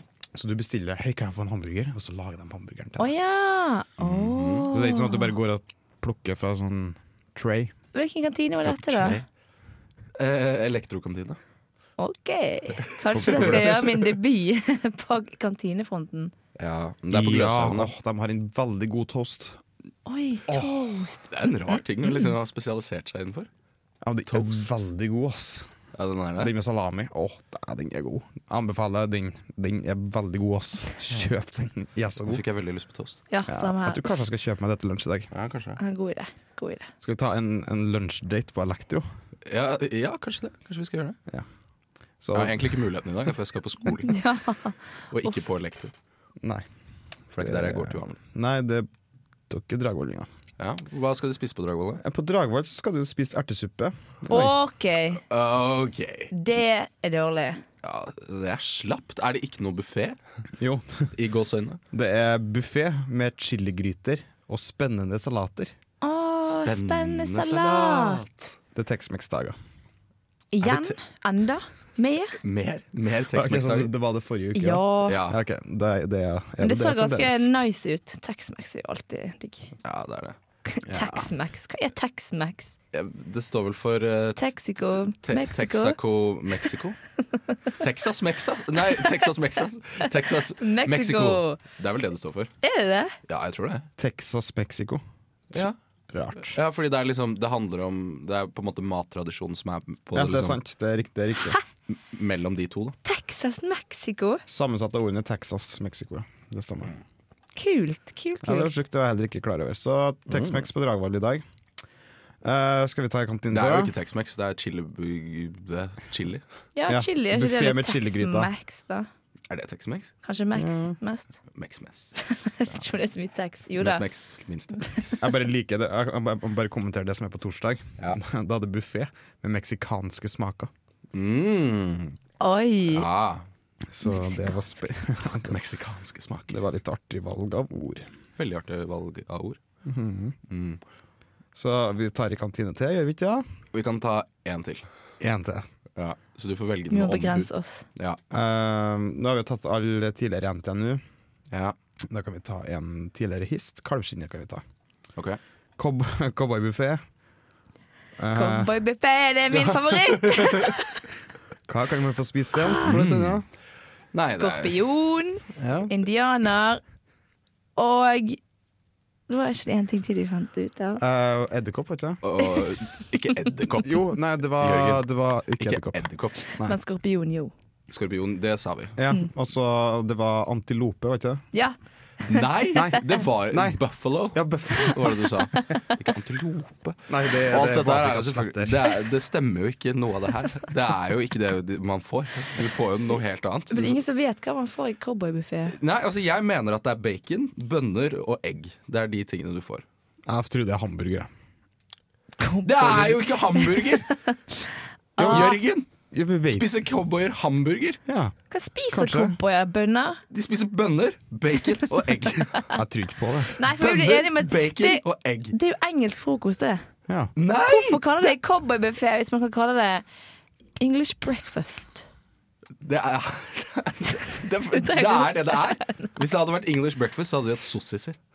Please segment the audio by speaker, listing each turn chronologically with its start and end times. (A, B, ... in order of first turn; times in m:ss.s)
0:00.3-0:03.1 A
0:03.0-0:05.3 B
0:04.0-0:04.7 C
0:04.7-0:07.7 A
0:07.9-0:09.2 B
0:08.6-0:09.2 C
0:10.2-0:11.4 C
0:12.0-0:16.3 B
0:13.1-0:14.0 A
0:13.2-0:14.0 C
0:16.6-0:17.9 C
0:17.1-0:19.6 A
0:20.1-0:22.3 B
0:21.2-0:23.5 C
0:24.0-0:25.7 A
0:24.3-0:24.7 C
0:26.0-0:26.6 C
0:26.4-0:32.4 A
0:32.2-0:33.2 C
0:33.3-0:34.2 B
0:33.5-0:35.3 A
0:35.3-0:35.8 C
0:35.8-0:36.9 B
0:37.0-0:39.0 A
0:39.5-0:41.2 C
0:42.2-0:42.7 A
0:42.3-0:44.2 C
0:44.1-0:45.3 B
0:45.1-0:45.9 C
0:47.3-0:48.2 C
0:47.4-0:48.9 A
0:49.5-0:50.3 A
0:50.6-0:52.0 C
0:52.0-0:54.5 A
0:54.3-0:55.2 B
0:55.3-0:56.3 C
0:56.3-0:57.6 B
0:57.8-1:00.2 C
1:00.6-1:01.1 A
1:01.2-1:01.8 C
1:01.9-1:05.7 A
1:06.0-1:08.3 B
1:06.4-1:08.3 C
1:08.8-1:09.6 A
1:10.5-1:12.4 B
1:10.6-1:11.0 C
1:12.4-1:13.9 C
1:13.3-1:17.5 A
1:14.6-1:15.2 B
1:15.1-1:15.4 C
1:16.6-1:19.7 B
1:19.8-1:20.4 C
1:20.7-1:22.8 B
1:20.9-1:21.3 A
1:22.9-1:24.5 C
1:24.4-1:26.0 B
1:25.1-1:27.0 C
1:27.8-1:32.5 C
1:30.1-1:31.6 B
1:32.6-1:33.2 B
1:33.3-1:33.9 C
1:34.0-1:35.0 A
1:35.6-1:36.6 A
1:36.5-1:40.6 C
1:40.1-1:41.6 A
1:41.9-1:43.0 C
1:43.0-1:44.4 B
1:44.5-1:46.9 A
1:47.6-1:48.8 B
1:48.4-1:51.4 A
1:50.3-1:50.7 C
1:52.4-1:53.9 A
1:53.5-1:56.4 C
1:56.8-1:59.1 B
1:56.9-1:58.5 A
1:59.5-2:00.1 C
2:00.2-2:01.4 B
2:00.6-2:01.0 A
2:01.5-2:02.2 C
2:02.2-2:04.0 B
2:03.8-2:05.3 C
2:05.2-2:10.7 A
2:11.1-2:12.2 C
2:12.4-2:13.1 B
2:12.9-2:13.4 C
2:13.9-2:15.6 A
2:14.0-2:14.6 B
2:15.5-2:16.6 C
2:16.5-2:18.1 A
2:18.4-2:19.6 C
2:19.8-2:20.4 A
2:20.5-2:20.8 C
2:21.6-2:23.4 A
2:23.7-2:24.8 C
2:25.2-2:25.7 A
2:26.0-2:28.2 C
2:26.9-2:27.8 B
2:28.3-2:31.0 A
2:32.0-2:34.6 A
2:35.8-2:37.0 A
2:38.2-2:38.7 A
2:38.3-2:41.0 B
2:39.5-2:40.7 C
2:41.7-2:43.4 A
2:42.6-2:43.0 B
2:42.8-2:43.4 C
2:44.1-2:44.8 C
2:44.3-2:46.8 B
2:45.6-2:45.9 A
2:47.8-2:48.4 B
2:49.3-2:51.0 B
2:51.0-2:52.2 A
2:52.2-2:56.4 C
2:53.8-2:56.0 A
2:56.6-2:57.5 B
2:57.9-2:59.0 C
2:59.0-3:01.4 A
3:02.3-3:14.0 C
3:02.7-3:03.8 A
3:04.3-3:05.2 A
3:05.5-3:05.8 B
3:07.1-3:08.9 A
3:13.7-3:15.8 B
3:15.7-3:19.8 C
3:20.3-3:21.3 A
3:22.4-3:24.0 B
3:22.6-3:24.1 C
3:25.2-3:25.5 A
3:25.2-3:25.6 B
3:25.3-3:25.9 C
3:26.1-3:26.7 A
3:26.5-3:28.0 C
3:28.1-3:28.4 A
3:28.5-3:30.2 B
3:28.9-3:29.4 A
3:30.3-3:32.7 C
3:32.7-3:33.6 A
3:33.5-3:36.8 B
3:33.8-3:35.6 C
3:37.4-3:38.3 C
3:37.5-3:40.0 B
3:40.8-3:42.0 B
3:42.8-3:48.2 C
3:44.7-3:46.1 B